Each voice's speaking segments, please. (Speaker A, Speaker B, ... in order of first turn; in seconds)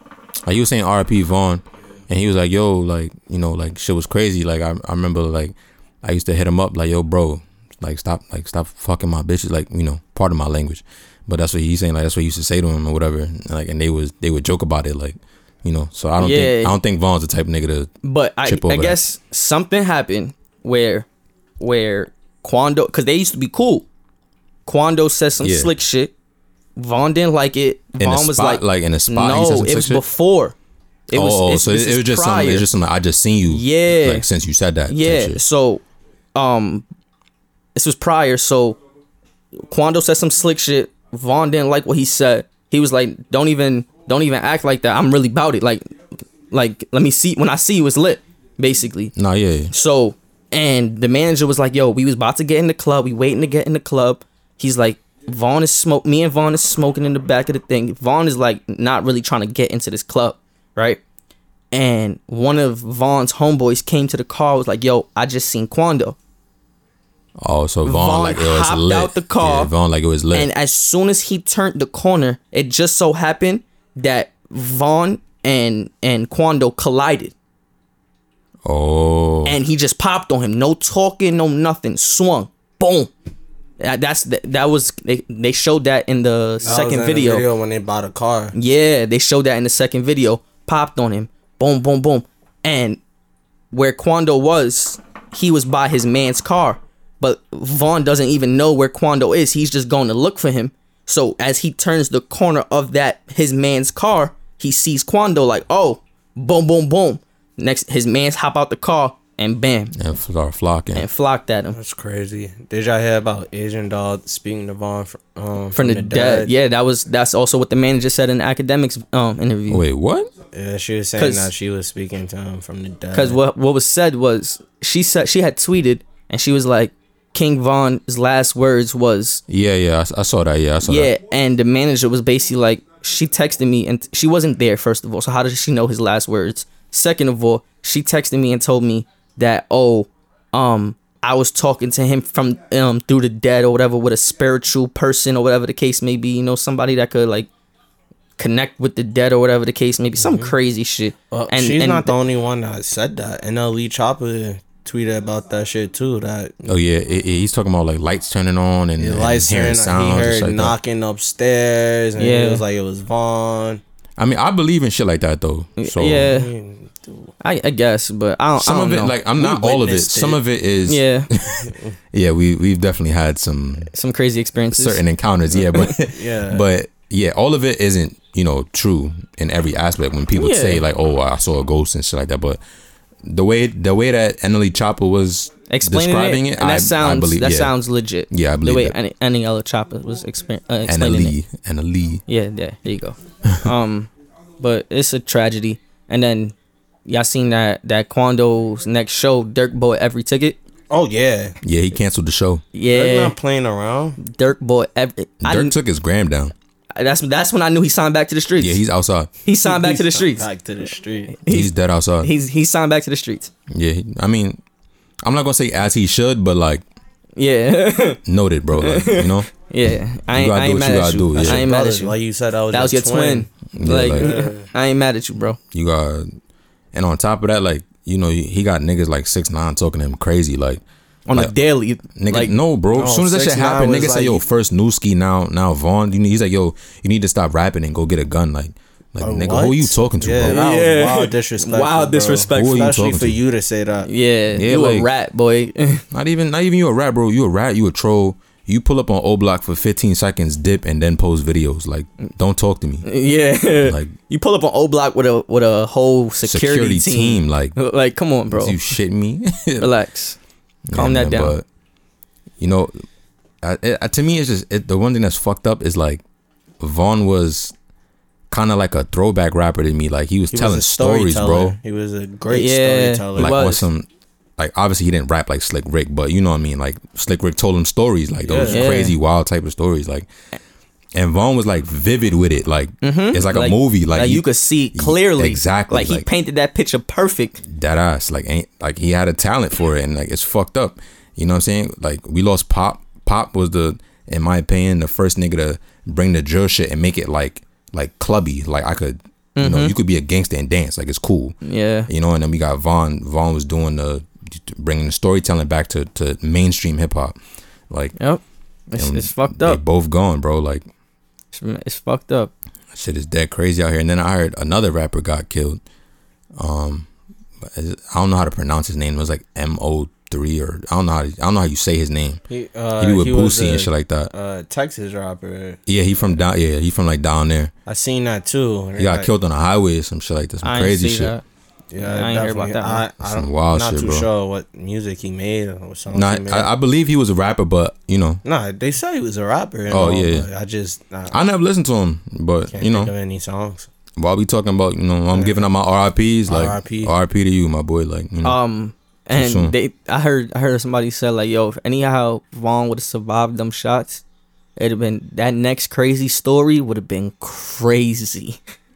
Speaker A: 0.5-17.9, 18.4-19.0, 25.4-25.7, 28.0-30.0, 31.1-35.4, 49.2-49.7, 67.4-70.5, 78.7-79.6, 110.0-111.1, 119.7-120.3, 129.5-131.1, 156.7-160.8, 164.2-166.3, 168.6-173.9, 174.7-182.6, 183.2-187.8, 188.3-189.0, 190.9-192.2, 201.6-202.6, 205.4-206.5, 208.6-209.3, 211.5-212.3, 213.7-214.6, 215.2-216.8, 218.2-219.5, 220.3-221.7, 223.8-224.3, 225.7-226.3, 226.9-230.8, 232.2-240.6, 242.5-243.4, 244.5-245.1, 246.1-253.1, 253.8-254.1, 256.4-257.8, 258.5-259.9, 260.9-261.6, 262.6-262.9, 263.6-266.2, 266.8-267.7, 268.5-271.8, 273.4-274.1, 274.6-280.3, 281.1-286.3, 287.6-301.6, 302.1-307.4, 307.9-308.1, 309.0-310.9, 312.9-315.8, 316.6-317.1, 317.6-322.4, 323.0-324.3, 325.9-327.7, 329.0-331.3, 333.2-334.3, 336.1-338.4, 339.9-340.5, 341.3-343.1, 344.2-348.6, 349.3-349.7
Speaker B: 16.2-16.8, 18.0-21.1, 21.6-23.9, 24.7-26.1, 26.8-30.5, 31.1-32.7, 33.5-34.3, 34.9-35.8, 36.4-36.9, 37.8-38.8, 39.6-45.9, 46.5-49.1, 49.7-61.0, 61.7-66.2, 67.9-69.7, 70.3-77.3, 79.5-83.1, 83.8-87.5, 88.5-93.0, 93.7-110.0, 111.0-111.8, 115.8-119.8, 121.2-121.5, 123.1-129.4, 130.8-147.5, 148.4-152.1, 162.2-162.6, 165.8-166.5, 167.4-169.2, 170.9-171.3, 173.9-175.0, 180.3-180.8, 185.7-191.3, 192.3-196.6, 197.1-200.6, 202.7-203.3, 204.2-205.8, 207.0-208.8, 209.4-210.5, 211.3-213.5, 217.4-218.2, 218.8-222.2, 222.7-225.6, 231.3-232.6, 240.4-242.9, 244.1-246.0, 253.1-258.8, 259.8-260.4, 260.9-261.6, 272.5-273.9, 278.7-279.1, 283.0-287.6, 299.6-299.9, 301.6-302.1, 308.2-309.8, 311.5-312.5, 330.6-331.4, 332.0-333.0, 348.4-354.2, 354.8-358.6
Speaker C: 86.6-88.5, 111.7-116.5, 120.5-123.4, 150.2-150.5, 151.3-156.7, 159.0-163.8, 166.1-167.3, 169.4-170.4, 171.7-171.9, 175.8-176.7, 200.9-201.6, 202.9-204.2, 209.6-211.4, 221.3-223.5, 224.1-224.7, 232.9-234.4, 239.2-244.1, 270.5-273.7, 278.4-278.9, 322.5-325.8, 327.9-329.3, 331.9-336.7, 338.4-341.4, 342.7-343.9, 345.3-345.7, 346.5-347.1